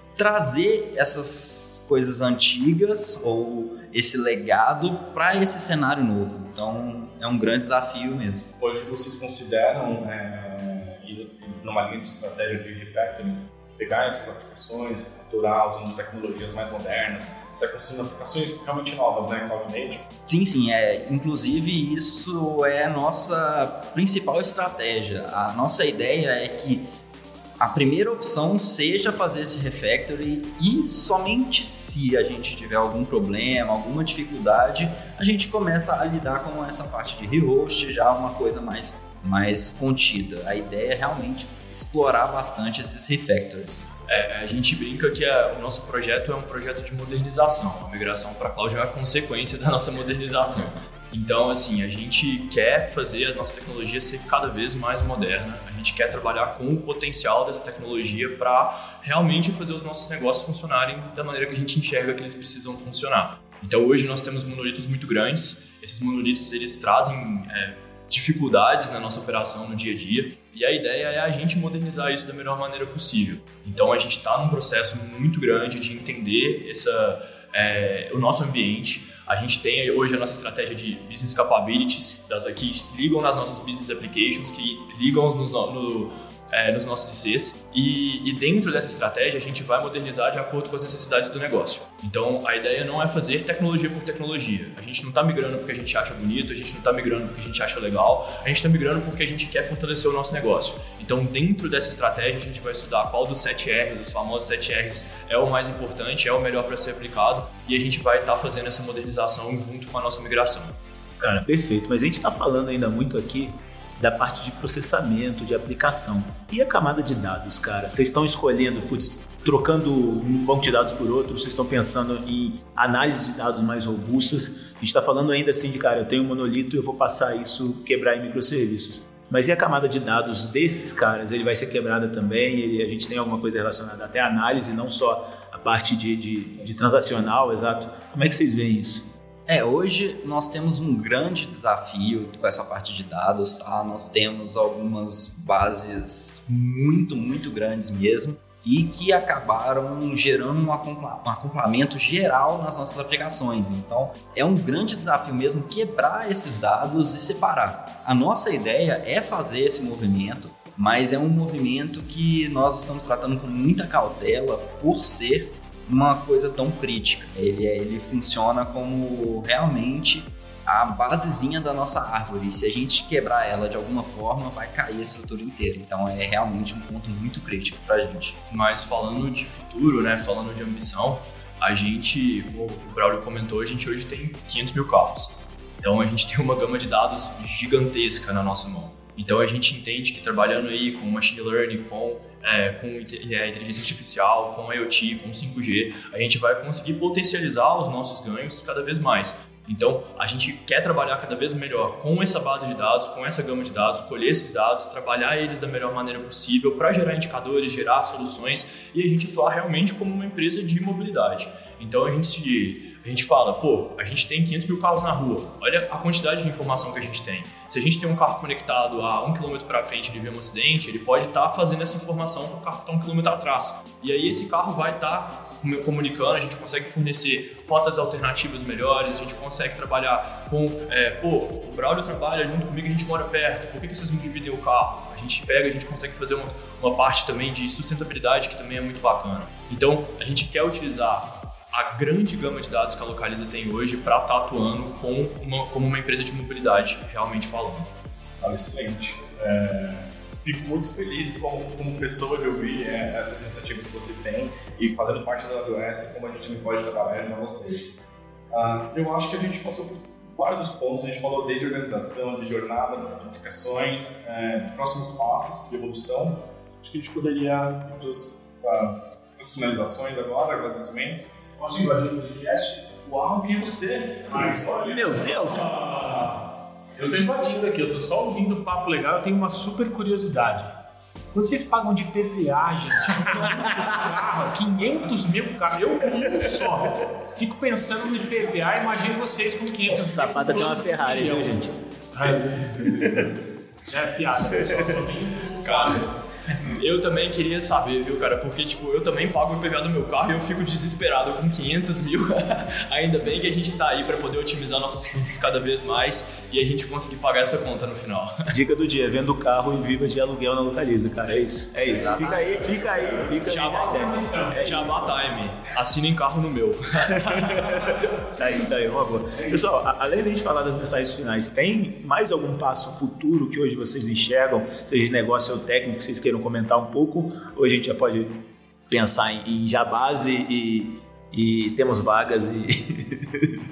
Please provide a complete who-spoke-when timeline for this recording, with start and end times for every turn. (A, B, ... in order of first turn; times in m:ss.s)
0:00.2-0:08.5 A
0:08.6-0:20.1 B
0:20.3-0:26.9 A
0:27.6-0:43.9 A
0:44.1-1:50.8 C
1:51.2-2:19.1 D
2:16.6-2:16.9 B
2:19.5-2:58.4 A
2:58.5-4:07.9 C
4:08.4-4:31.6 B
4:31.6-4:32.8 E
4:33.0-4:34.8 B
4:34.3-4:36.3 E
4:34.8-4:35.7 D
4:37.0-4:40.8 E
4:41.3-4:51.6 E
4:49.9-4:51.7 D
4:52.2-4:53.3 E
4:52.2-4:53.3 D
4:53.9-4:56.0 E
4:54.5-4:55.1 D
4:55.5-5:08.4 C
5:08.5-5:15.1 D
5:11.9-5:13.2 A
5:12.2-5:12.5 E
5:13.4-5:18.0 C
5:14.0-5:14.6 E
5:17.1-5:33.6 D